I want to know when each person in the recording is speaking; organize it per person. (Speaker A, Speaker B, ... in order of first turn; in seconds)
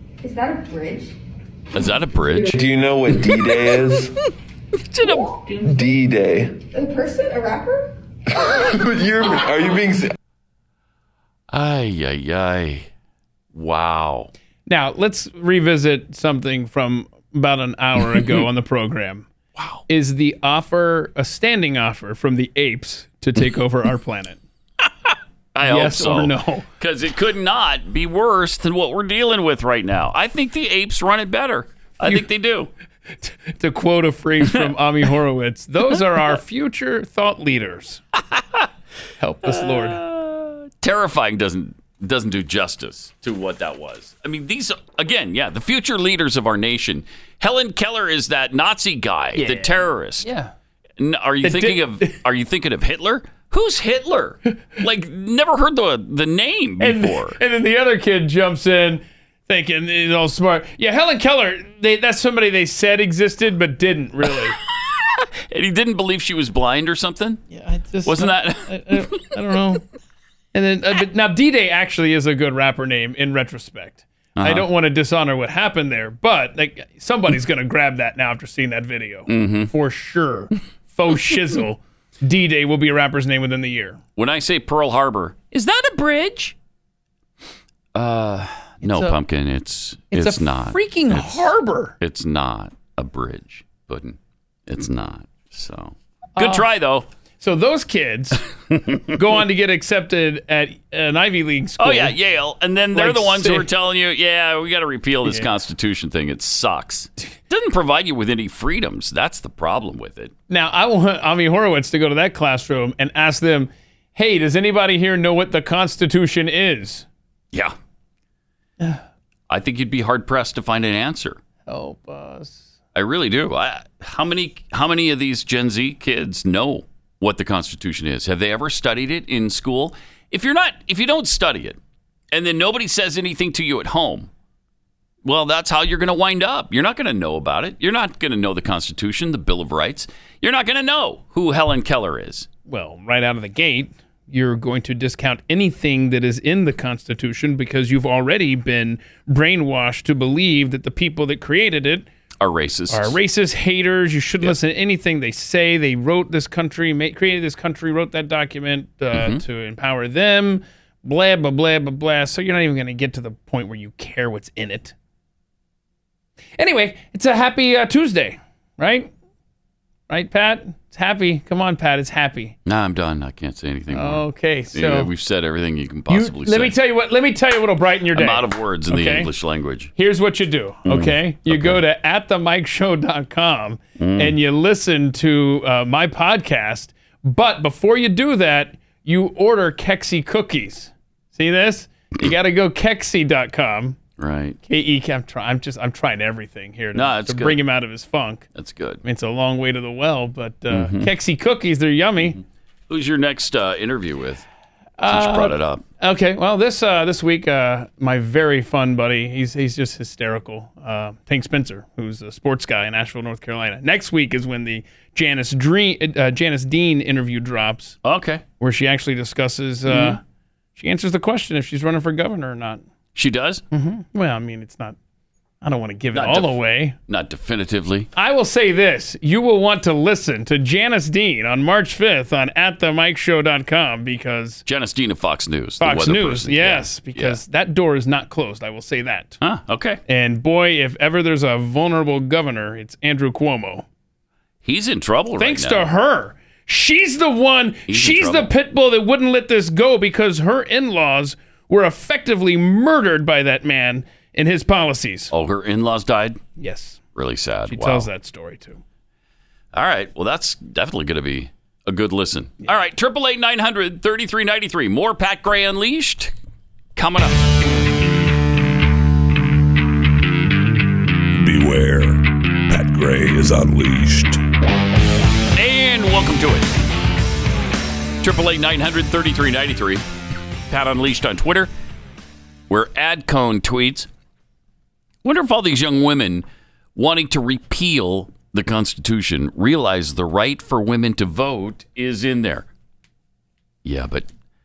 Speaker A: 0.2-1.1, 6.7-7.9
Speaker B: 1.7-2.6, 3.4-3.8, 4.9-5.3, 11.5-12.9, 13.5-14.3, 19.6-19.8, 25.6-32.7, 38.4-38.6, 39.5-50.3, 51.0-57.4, 64.9-67.4, 68.0-69.2, 74.4-74.7, 79.3-79.7, 84.2-86.5, 88.0-97.1, 98.8-99.0, 101.8-110.3, 119.5-121.4, 122.9-131.8, 132.3-134.3, 135.2-142.5, 152.4-153.2, 159.1-159.4, 172.7-176.8, 178.1-179.9, 180.9-181.8, 184.0-184.3, 194.2-194.6, 196.9-197.6, 198.6-199.0, 200.7-201.1, 202.9-204.5, 205.1-205.8, 218.0-218.4, 219.9-220.2, 223.1-223.6, 226.1-228.1, 234.7-237.4, 239.4-240.0, 244.6-245.9, 247.9-248.5, 255.3-256.4, 257.1-258.1, 259.7-266.3, 267.0-267.5, 275.6-276.7, 278.2-280.1, 280.7-281.7, 282.7-284.1, 285.2-292.7, 293.9-294.3
Speaker C: 2.5-4.1, 5.7-6.5, 8.8-10.1
Speaker D: 14.7-19.3, 19.9-24.4, 25.6-26.7, 33.2-38.0, 39.2-40.0, 49.4-50.5, 51.4-52.1, 56.8-64.6, 67.5-69.8, 70.5-84.0, 88.8-89.2, 90.1-92.0, 96.4-96.7, 97.4-98.4, 99.1-102.2, 102.9-103.7, 105.2-105.5, 110.5-117.0, 121.7-122.7, 142.7-152.1, 152.9-164.9, 166.6-169.1, 170.1-172.6, 173.9-175.1, 176.1-179.3, 180.0-194.0, 194.7-198.5, 199.0-202.4, 205.0-218.0, 218.6-220.2, 220.8-222.8, 223.7-225.0, 225.6-227.0, 228.2-234.6, 235.8-239.4, 240.1-243.8, 245.4-255.3, 256.6-257.0, 257.7-258.8
Speaker E: 271.3-274.4